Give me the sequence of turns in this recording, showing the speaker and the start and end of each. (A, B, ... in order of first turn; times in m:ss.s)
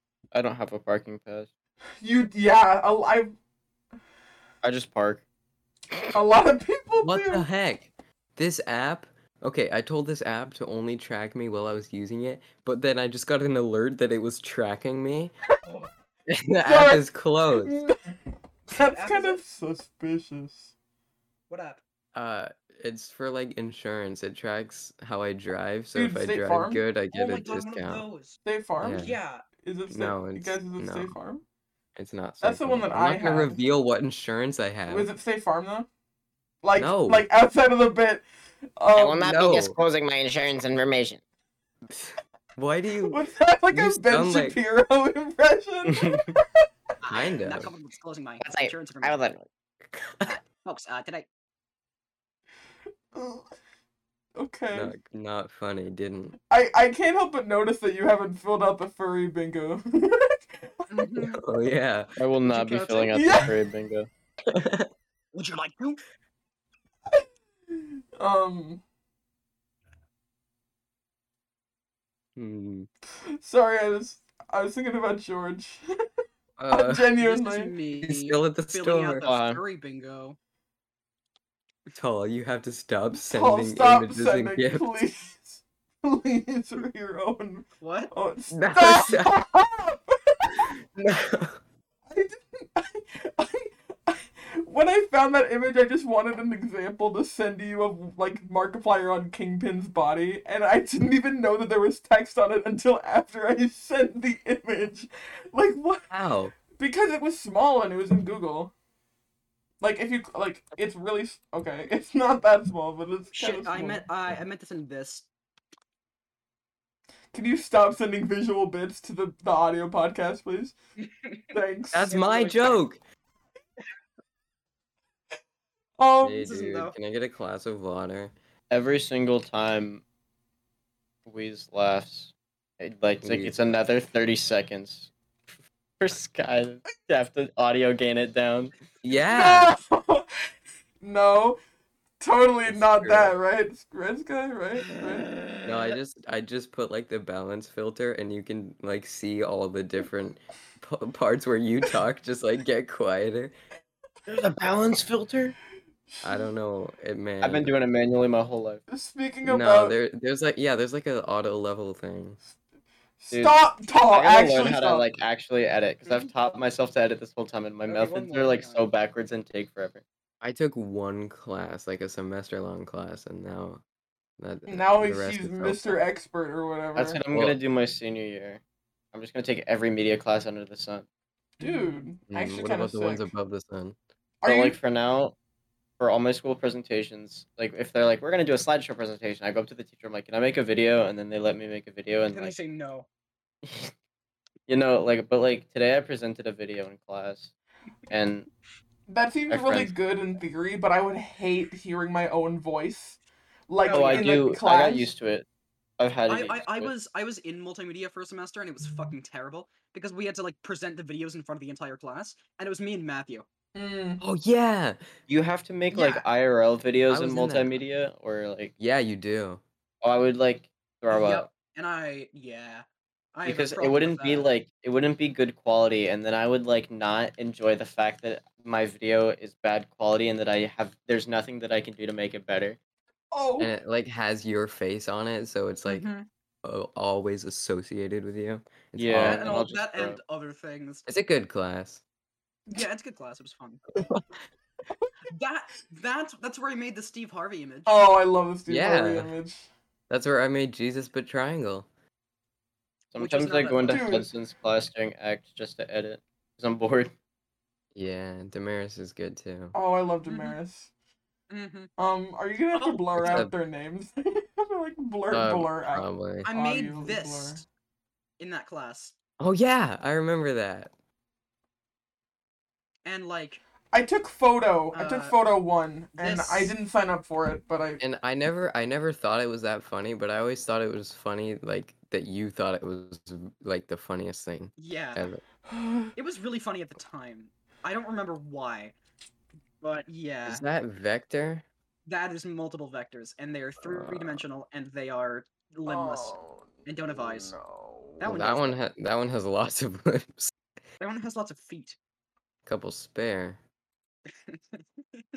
0:00.3-0:01.5 A
0:02.0-0:03.3 B
0:04.6-0:05.2 A
0:06.1-0:07.4 B
0:07.0-0:15.3 C
0:16.3-0:17.8 C
0:16.7-0:18.2 B
0:18.7-0:20.7 B
0:18.8-0:19.4 D
0:21.5-0:21.8 D
0:22.1-0:28.0 C
0:26.0-0:26.8 B
0:27.1-0:28.4 D
0:28.4-0:31.4 B
0:28.8-0:29.2 C
0:28.9-0:29.5 D
0:29.9-0:31.1 C
0:32.0-0:35.1 C
0:32.4-0:33.6 B
0:34.9-0:35.9 B
0:36.6-0:38.2 B
0:36.8-0:37.3 C
0:38.8-0:39.3 B
0:39.0-0:41.2 A
0:39.2-0:39.8 C
0:41.9-0:44.6 C
0:43.1-0:46.4 B
0:45.9-0:46.3 A
0:47.0-0:49.2 D
0:47.1-0:47.7 C
0:48.4-0:49.5 A
0:50.2-0:51.3 D
0:53.1-0:53.4 B
0:54.4-0:54.9 B
0:54.7-0:56.4 C
0:56.5-1:01.1 B
1:00.9-1:01.4 D
1:01.3-1:02.2 C
1:02.2-1:04.1 A
1:02.5-1:03.1 D
1:03.1-1:03.6 B
1:04.5-1:04.9 C
1:05.3-1:06.0 D
1:08.2-1:08.8 B
1:12.4-1:12.9 C
1:13.4-1:15.8 B
1:16.6-1:17.1 C
1:16.7-1:17.7 B
1:17.2-1:20.4 D
1:18.0-1:19.3 C
1:19.2-1:19.6 A
1:22.0-1:24.9 C
1:23.2-1:30.7 B
1:27.8-1:28.1 D
1:28.5-1:29.4 C
1:30.6-1:31.6 C
1:32.1-1:46.1 B
1:46.1-1:46.6 C
1:46.7-1:48.7 B
1:49.8-1:54.0 B
1:53.3-1:55.3 D
1:57.3-2:00.8 B
2:01.0-2:01.6 D
2:01.5-2:02.1 B
2:01.9-2:03.0 C
2:02.1-2:02.8 D
2:06.0-2:06.4 B
2:06.2-2:08.3 C
2:06.4-2:07.0 D
2:08.7-2:10.0 A
2:11.3-2:15.1 A
2:13.2-2:13.6 C
2:16.0-2:18.7 A
2:19.0-2:19.7 C
2:19.2-2:20.3 B
2:21.0-2:21.6 B
2:22.2-2:25.3 B
2:22.7-2:23.4 C
2:25.6-2:33.5 C
2:34.3-2:35.6 A
2:36.1-2:36.4 B
2:36.2-2:37.8 C
2:37.4-2:38.8 A
2:38.9-2:40.0 B
2:39.4-2:42.4 C
2:43.2-2:45.1 B
2:43.3-2:50.0 A
2:47.9-2:48.9 D
2:50.4-2:53.8 C
2:54.4-2:56.0 C
2:54.7-2:57.2 B
2:57.0-2:58.6 A
2:57.3-2:57.6 C
2:59.1-3:01.1 A
3:01.6-3:03.3 B
3:02.3-3:04.0 C
3:04.4-3:04.8 B
3:04.4-3:05.4 A
3:06.0-3:12.6 A
3:12.3-3:13.1 D
3:13.6-3:13.9 A
3:14.7-3:17.5 A
3:18.1-3:18.5 A
3:19.1-3:23.2 B
3:19.5-3:19.9 A
3:23.7-3:25.1 B
3:23.8-3:24.4 D
3:23.9-3:25.5 A
3:26.0-3:27.0 A
3:26.3-3:33.5 D
3:33.8-3:34.2 B
3:34.2-3:35.0 C
3:35.3-3:38.7 A
3:35.9-3:36.2 D
3:37.1-3:37.8 C
3:38.8-3:39.6 C
3:40.0-3:41.5 A
3:41.1-3:44.5 D
3:43.4-3:52.8 A
3:53.3-3:53.7 B
3:53.6-3:56.1 C
3:55.9-3:56.3 D
3:56.6-3:59.5 C
3:59.0-4:00.2 A
3:59.1-4:01.0 D
4:01.1-4:02.0 C
4:02.8-4:03.8 D
4:04.0-4:04.2 C
4:05.3-4:08.0 D
4:07.9-4:09.7 B
4:08.7-4:09.3 C
4:10.1-4:11.9 C
4:13.1-4:17.1 A
4:13.2-4:14.1 D
4:13.9-4:14.3 B
4:18.0-4:19.8 C
4:19.7-4:20.9 B
4:20.3-4:20.6 D
4:21.5-4:21.9 D
4:22.0-4:27.6 B
4:22.7-4:23.5 D
4:23.2-4:23.5 C
4:25.3-4:26.5 C
4:26.4-4:27.6 D
4:28.4-4:29.2 D
4:29.4-4:30.9 C
4:33.0-4:33.6 D
4:33.9-4:38.0 B
4:34.9-4:35.5 D
4:36.1-4:36.7 D
4:38.0-4:45.4 C
4:44.8-4:45.3 D
4:45.7-4:46.1 B
4:46.2-4:49.0 D
4:49.8-4:50.6 D
4:50.5-4:51.6 C
4:52.1-4:57.6 D
4:55.9-4:58.2 B
4:58.2-4:58.8 D
4:58.2-5:00.5 C
5:01.0-5:02.0 D
5:02.7-5:03.6 C
5:04.5-5:05.2 D